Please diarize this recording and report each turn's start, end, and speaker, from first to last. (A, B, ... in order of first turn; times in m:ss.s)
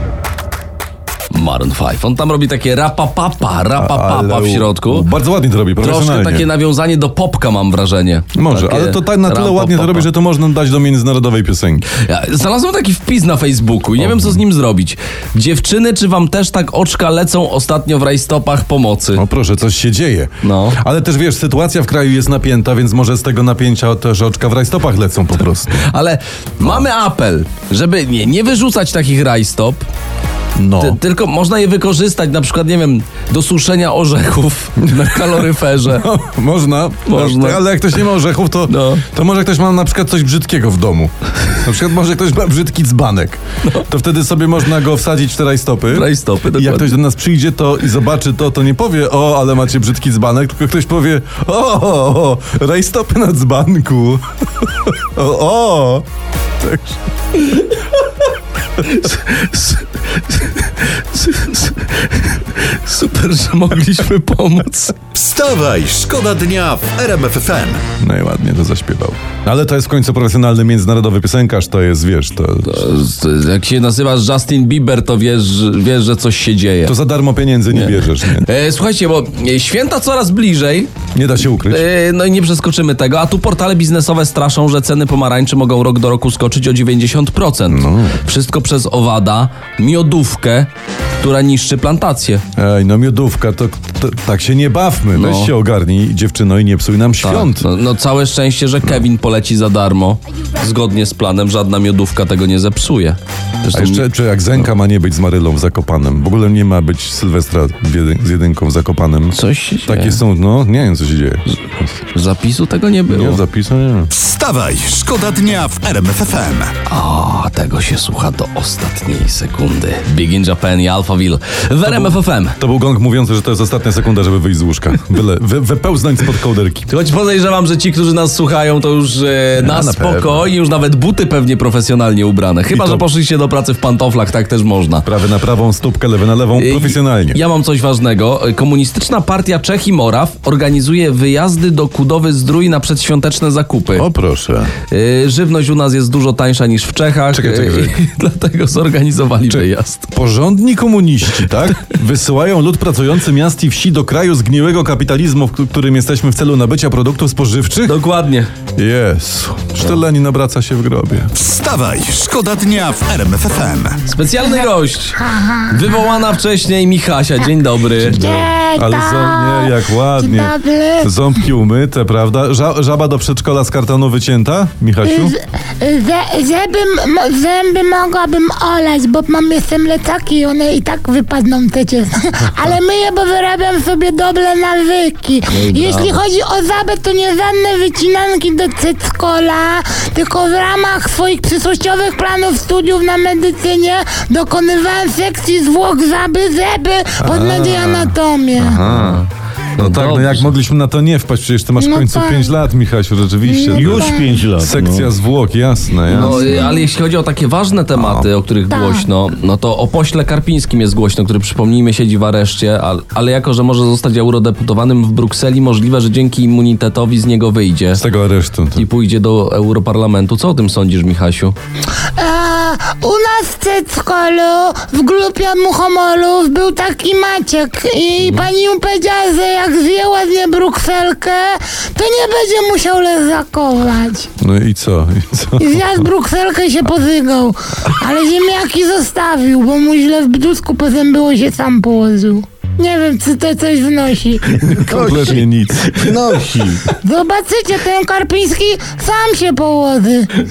0:01.3-0:05.1 A
0:03.8-0:06.5 B
0:05.8-0:10.1 A
0:08.4-0:11.9 B
0:12.0-0:19.2 A
0:14.0-0:14.4 B
0:19.1-0:25.8 B
0:20.4-0:20.8 A
0:25.8-0:29.8 A
0:30.6-0:31.0 B
0:30.8-0:36.0 A
0:34.9-0:56.0 B
0:37.1-0:37.6 A
0:38.7-0:39.0 A
0:45.9-0:46.9 A
0:56.6-0:57.0 B
0:58.8-1:05.0 A
1:05.2-1:07.8 C
1:08.0-1:12.8 B
1:12.7-1:17.0 A
1:16.8-1:18.5 B
1:17.7-1:20.9 A
1:21.2-1:21.9 B
1:21.6-1:30.7 A
1:27.7-1:28.2 B
1:31.2-1:32.4 A
1:32.6-1:37.7 B
1:35.2-1:35.5 A
1:37.2-1:44.0 A
1:43.7-1:51.9 B
1:49.3-1:50.2 A
1:51.5-1:53.4 A
1:53.1-1:54.1 B
1:54.1-1:56.7 C
1:56.9-2:02.6 A
2:01.8-2:06.9 B
2:06.9-2:15.1 A
2:09.6-2:10.5 B
2:12.7-2:13.1 B
2:15.0-2:17.4 B
2:16.6-2:24.1 A
2:23.9-2:24.8 B
2:24.9-2:30.1 A
2:27.3-2:27.9 B
2:29.4-2:38.0 B
2:37.9-2:38.5 A
2:38.8-2:41.3 B
2:41.4-2:44.0 C
2:44.1-2:48.2 A
2:44.4-2:44.6 D
2:45.2-2:46.0 D
2:48.0-2:51.1 D
2:48.1-2:55.3 B
2:55.0-3:18.8 D
3:05.5-3:06.2 A
3:17.2-3:19.2 B
3:18.9-3:20.5 A
3:19.8-3:26.5 B
3:21.8-3:22.6 D
3:23.4-3:24.3 D
3:23.7-3:25.1 E
3:26.1-3:38.0 A
3:26.1-3:26.9 D
3:27.9-3:28.3 B
3:28.7-3:29.1 D
3:38.0-3:38.8 B
3:38.8-3:41.6 A
3:42.2-3:54.3 D
3:54.4-3:56.0 B
3:55.6-4:04.6 D
4:04.6-4:06.2 B
4:04.9-4:06.9 E
4:07.0-4:10.3 D